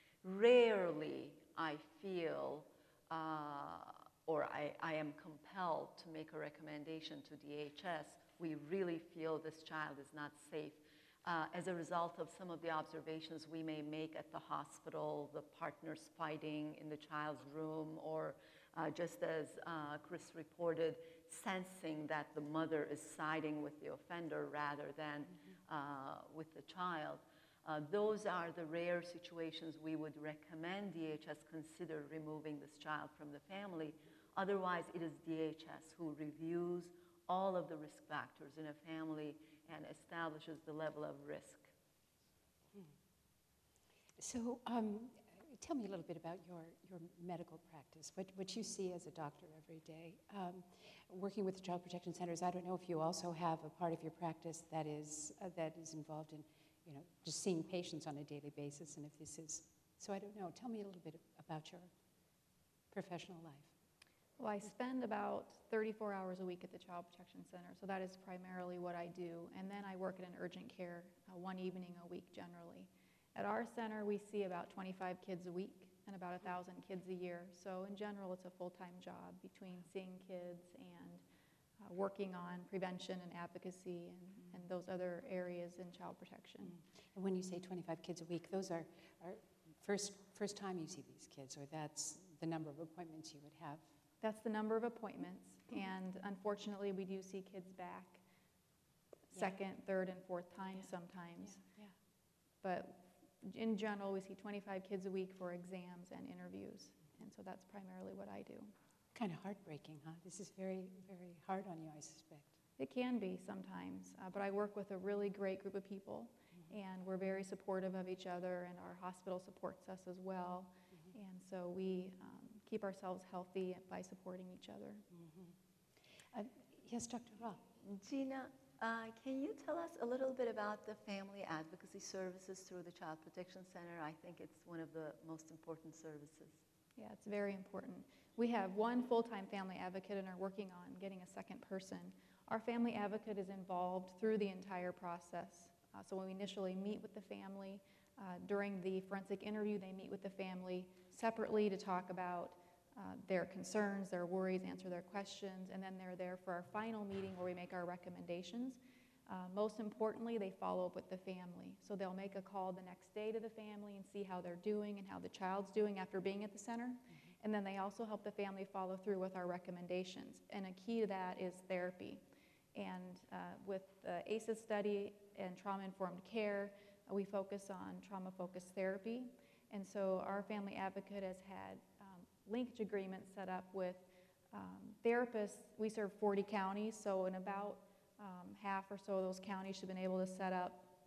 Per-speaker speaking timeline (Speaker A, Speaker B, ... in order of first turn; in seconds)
Speaker A: 0.2-41.7, 127.8-136.6
Speaker B: 44.2-61.9, 62.9-63.7, 86.6-93.8, 100.8-101.9, 109.2-112.5, 125.1-125.5, 126.3-127.6
Speaker C: 64.4-81.2, 81.8-86.8, 94.2-98.2, 99.3-101.6, 102.6-108.7, 112.8-125.0, 137.0-172.2, 172.8-190.9